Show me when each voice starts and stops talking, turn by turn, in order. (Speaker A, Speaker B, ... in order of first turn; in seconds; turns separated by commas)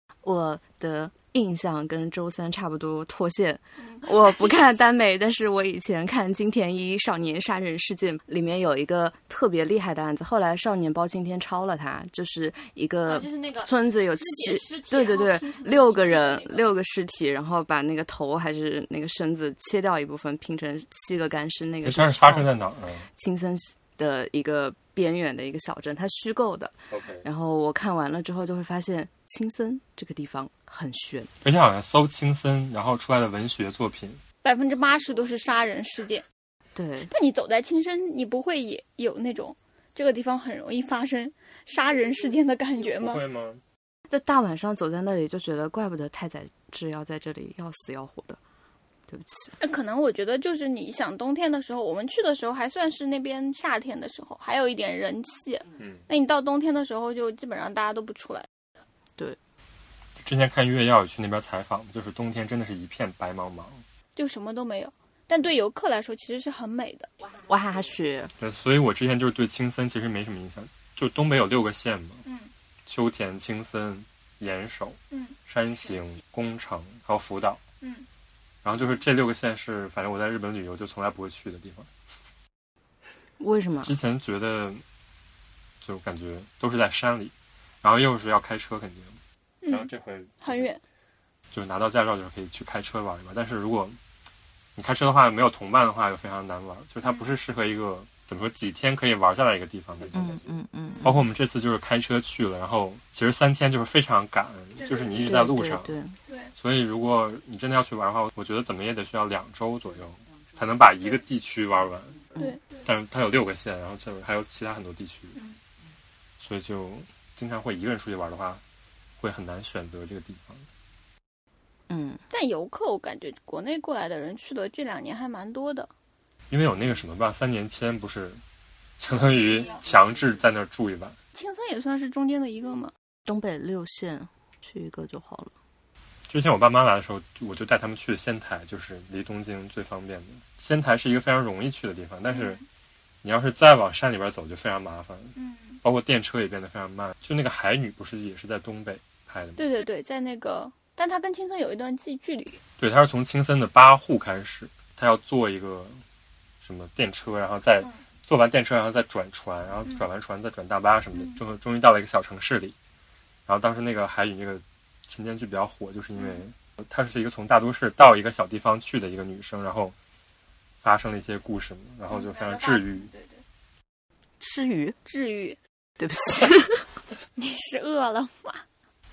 Speaker A: 0.2-22.5, Speaker B: 3.8-4.7, Speaker B: 13.1-16.7, Speaker C: 21.8-23.1, Speaker A: 23.2-31.3, Speaker C: 26.9-27.2, Speaker C: 31.4-34.2, Speaker B: 34.4-36.2, Speaker A: 36.8-37.1, Speaker B: 37.1-43.2, Speaker C: 42.8-43.6, Speaker A: 44.1-48.4, Speaker A: 49.1-49.6, Speaker B: 49.6-58.5, Speaker C: 55.8-56.0, Speaker C: 60.2-63.8, Speaker B: 64.2-67.1, Speaker A: 67.3-68.3, Speaker C: 68.4-72.2, Speaker B: 72.2-72.5, Speaker C: 72.9-77.6, Speaker B: 77.8-78.1, Speaker C: 78.6-81.9, Speaker A: 83.4-84.0, Speaker C: 83.8-84.8, Speaker C: 85.8-90.7, Speaker B: 89.6-89.9, Speaker B: 90.4-90.8, Speaker C: 91.5-94.0, Speaker C: 94.8-100.4, Speaker B: 97.0-97.3, Speaker A: 100.1-101.3, Speaker C: 101.0-105.9, Speaker B: 104.8-105.3, Speaker A: 105.2-106.2, Speaker C: 106.6-115.4, Speaker B: 112.4-112.9, Speaker C: 116.4-118.6, Speaker C: 119.2-120.7, Speaker A: 121.9-122.2, Speaker B: 122.3-125.9, Speaker C: 126.5-128.4, Speaker C: 129.0-131.2, Speaker B: 129.6-129.8, Speaker B: 131.3-132.9, Speaker A: 133.3-135.5, Speaker C: 136.3-142.6, Speaker B: 142.3-142.6, Speaker C: 143.2-149.6, Speaker B: 145.4-145.8, Speaker B: 149.6-152.6, Speaker C: 152.8-156.0, Speaker C: 156.6-162.8, Speaker C: 163.5-169.9, Speaker B: 166.2-166.4, Speaker C: 170.8-173.1, Speaker B: 172.1-173.4, Speaker A: 174.4-175.0, Speaker B: 175.1-175.6, Speaker A: 176.0-176.9, Speaker B: 177.4-178.6